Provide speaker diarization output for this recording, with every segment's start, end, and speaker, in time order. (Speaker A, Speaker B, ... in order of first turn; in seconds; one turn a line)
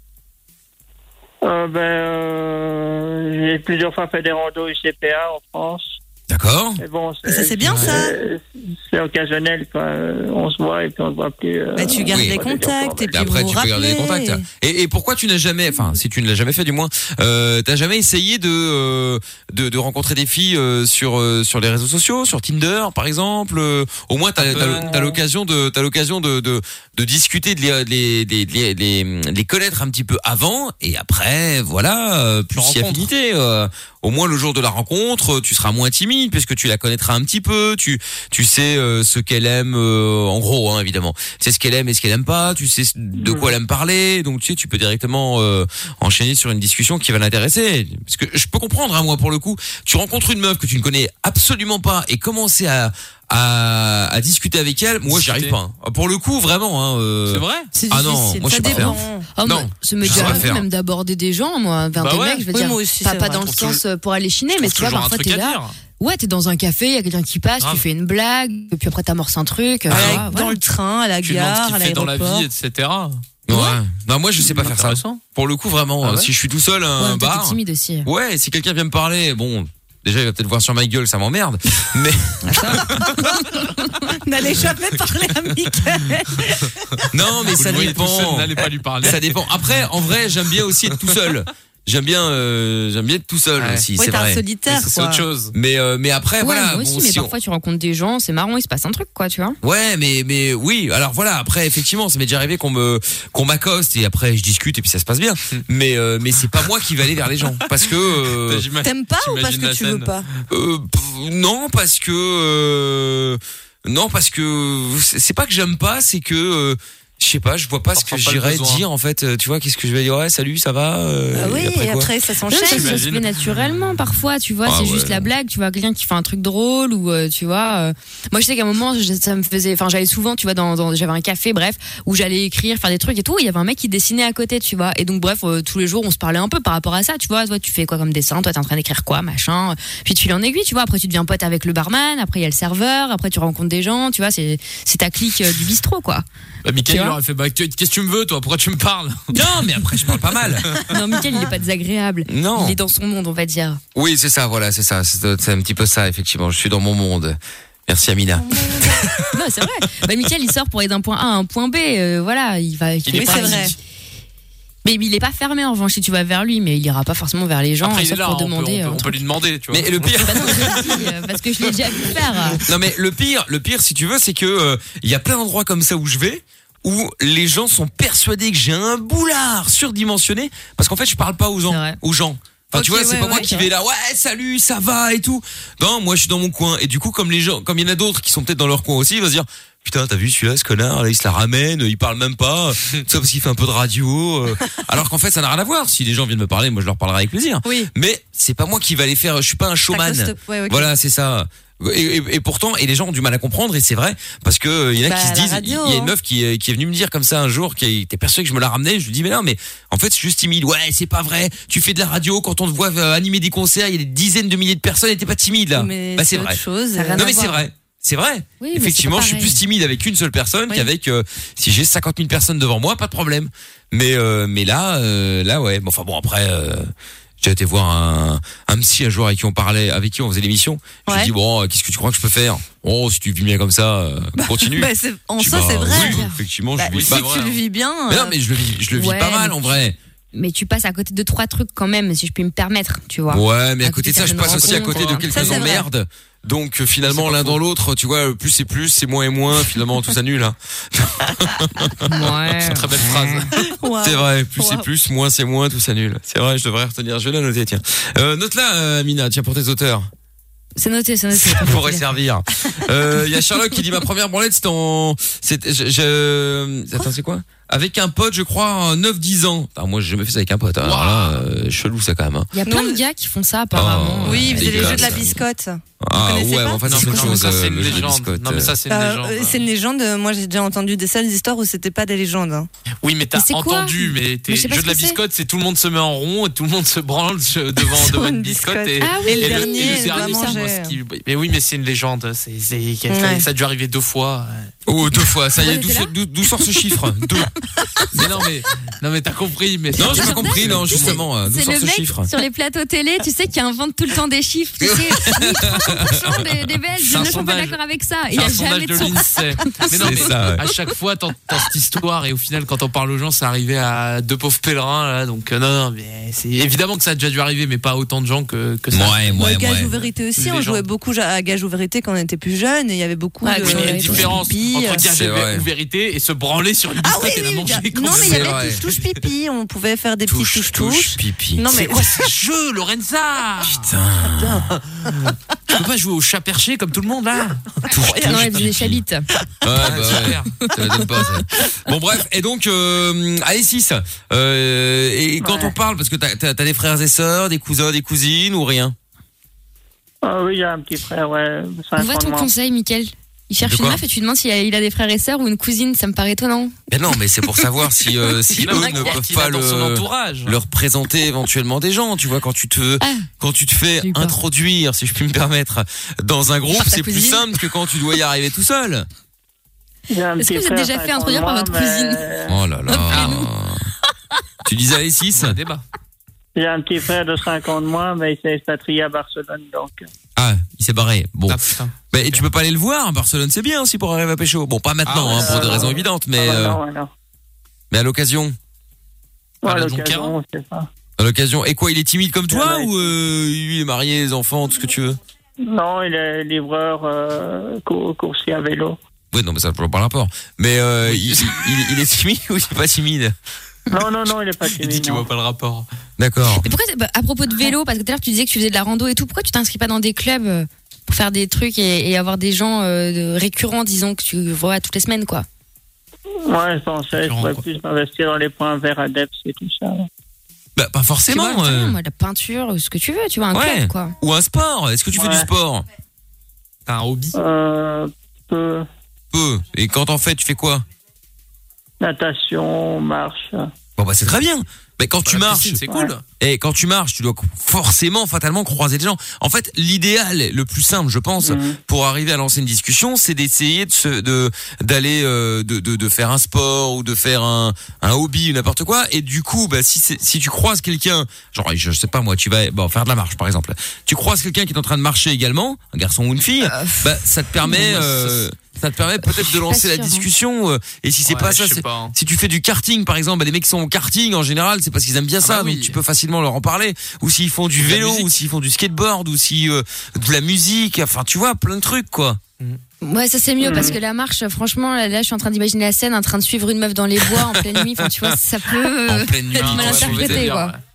Speaker A: 1.4-6.0
Speaker B: 6.3-6.8
Speaker A: 6.8-13.3
Speaker C: 7.3-8.2
Speaker D: 7.7-7.9
Speaker C: 11.8-14.4
Speaker B: 12.1-12.4
Speaker B: 13.1-60.7
Speaker D: 24.4-24.9
Speaker D: 32.5-33.1
Speaker A: 43.2-43.5
Speaker D: 55.1-55.6
Speaker D: 57.3-57.7
Speaker C: 57.9-59.3
Speaker E: 57.9-70.6
Speaker D: 60.1-60.5
Speaker D: 62.0-62.5
Speaker C: 62.5-63.8
Speaker D: 64.6-65.7
Speaker D: 69.9-70.3
Speaker C: 69.9-72.5
Speaker D: 71.2-73.3
Speaker B: 73.5-83.1
Speaker D: 74.4-75.2
Speaker D: 76.0-76.3
Speaker E: 77.0-78.1
Speaker C: 82.5-87.0
Speaker B: 87.1-94.4
Speaker D: 87.5-89.9
Speaker D: 91.0-91.2
Speaker D: 93.6-93.9
Speaker C: 94.0-95.3
Speaker D: 94.7-95.5
Speaker B: 95.5-97.3
Speaker E: 96.4-99.6
Speaker B: 99.6-108.7
Speaker D: 107.7-110.2
Speaker C: 108.8-110.3
Speaker B: 110.5-122.1
Speaker D: 118.0-118.8
Speaker C: 121.3-123.0
Speaker E: 122.5-146.2
Speaker D: 122.7-123.6
Speaker B: 124.7-125.3
Speaker D: 146.7-149.2
Speaker E: 146.9-147.2
Speaker B: 149.3-150.7
Speaker E: 150.9-153.8
Speaker B: 152.3-152.8
Speaker B: 153.9-159.2
Speaker C: 158.4-159.0
Speaker E: 159.3-163.7
Speaker B: 163.1-163.7
Speaker C: 163.1-163.8
Speaker E: 164.8-169.2
Speaker D: 167.8-170.5
Speaker B: 169.7-170.8
Speaker E: 170.2-172.6
Speaker B: 172.7-216.6
Speaker E: 181.7-182.0
Speaker C: 182.7-183.7
Speaker C: 199.9-200.9
Speaker C: 205.1-206.1
Speaker C: 215.8-217.4
Speaker E: 216.9-217.6
Speaker B: 217.2-237.4
Speaker E: 218.6-219.6
Speaker C: 234.4-236.2
Speaker E: 236.0-236.4
Speaker C: 236.8-238.4
Speaker D: 236.9-237.6
Speaker B: 238.1-240.0
Speaker E: 238.9-239.8
Speaker E: 240.3-245.2
Speaker B: 243.3-252.1
Speaker D: 244.5-245.7
Speaker C: 245.3-245.9
Speaker D: 247.0-247.6
Speaker E: 252.1-253.5
Speaker D: 252.4-253.6
Speaker C: 253.6-254.8
Speaker B: 254.0-260.1
Speaker E: 260.8-262.1
Speaker B: 261.4-272.5
Speaker D: 270.8-271.4
Speaker E: 272.5-275.2
Speaker C: 272.6-273.0
Speaker B: 273.7-275.4
Speaker C: 274.2-277.7
Speaker B: 276.0-278.7
Speaker D: 276.9-279.7
Speaker E: 276.9-277.8
Speaker C: 278.9-282.7
Speaker D: 283.0-294.7
Speaker E: 283.4-285.2
Speaker C: 287.9-291.0
Speaker E: 289.0-290.6
Speaker C: 293.1-293.5
Speaker B: 294.9-297.5
Speaker E: 295.6-296.1
Speaker D: 298.1-301.2
Speaker B: 300.0-302.3
Speaker E: 300.0-310.1
Speaker B: 304.8-306.6
Speaker D: 307.0-307.8
Speaker D: 308.3-319.3
Speaker B: 309.9-310.6
Speaker B: 318.9-319.9
Speaker C: 319.4-325.0
Speaker D: 319.9-320.9
Speaker E: 323.4-324.3
Speaker D: 323.6-329.2
Speaker B: 325.1-325.6
Speaker C: 327.0-332.2
Speaker B: 328.1-328.8
Speaker B: 330.3-331.7
Speaker D: 331.7-337.8
Speaker B: 333.6-334.7
Speaker C: 337.9-338.5
Speaker B: 337.9-339.0
Speaker E: 338.2-339.3
Speaker B: 339.6-349.0
Speaker D: 339.8-340.6
Speaker A: 345.4-345.7
Speaker A: 350.2-352.5
Speaker E: 352.0-356.7
Speaker B: 353.6-354.0
Speaker B: 356.9-369.1
Speaker D: 358.6-360.6
Speaker E: 358.6-359.2
Speaker E: 363.0-363.3
Speaker E: 364.0-364.4
Speaker E: 366.7-367.5
Speaker A: 370.1-372.6
Speaker E: 370.4-372.3
Speaker B: 372.5-373.9
Speaker E: 372.9-373.5
Speaker D: 373.1-373.4
Speaker B: 374.6-375.6
Speaker D: 375.3-375.8
Speaker A: 376.6-380.1
Speaker B: 380.4-381.6
Speaker D: 381.5-382.4
Speaker B: 382.1-386.8
Speaker D: 385.1-385.9
Speaker A: 385.2-387.1
Speaker B: 387.9-388.6
Speaker A: 389.6-390.9
Speaker D: 389.6-390.4
Speaker B: 391.2-395.2
Speaker A: 392.5-393.1
Speaker A: 395.7-399.0
Speaker B: 399.3-403.3
Speaker D: 401.1-401.7
Speaker A: 403.9-405.3
Speaker D: 404.7-405.9
Speaker B: 406.2-406.6
Speaker E: 406.6-415.5
Speaker A: 416.5-420.1
Speaker D: 417.1-417.6
Speaker B: 420.8-422.0
Speaker E: 421.3-424.1
Speaker B: 423.5-425.9
Speaker A: 425.1-425.5
Speaker D: 426.9-427.4
Speaker A: 427.3-428.9
Speaker B: 429.3-430.8
Speaker A: 432.0-433.7
Speaker B: 434.0-435.8
Speaker D: 435.2-436.2
Speaker A: 435.9-436.1
Speaker B: 436.4-472.4
Speaker A: 441.4-441.8
Speaker E: 456.6-457.1
Speaker D: 457.7-458.5
Speaker E: 459.2-460.3
Speaker D: 461.2-462.1
Speaker D: 465.4-466.0
Speaker D: 467.8-468.4
Speaker E: 473.0-480.7
Speaker A: 473.6-474.0
Speaker B: 477.3-478.1
Speaker B: 479.1-480.5
Speaker D: 479.6-480.8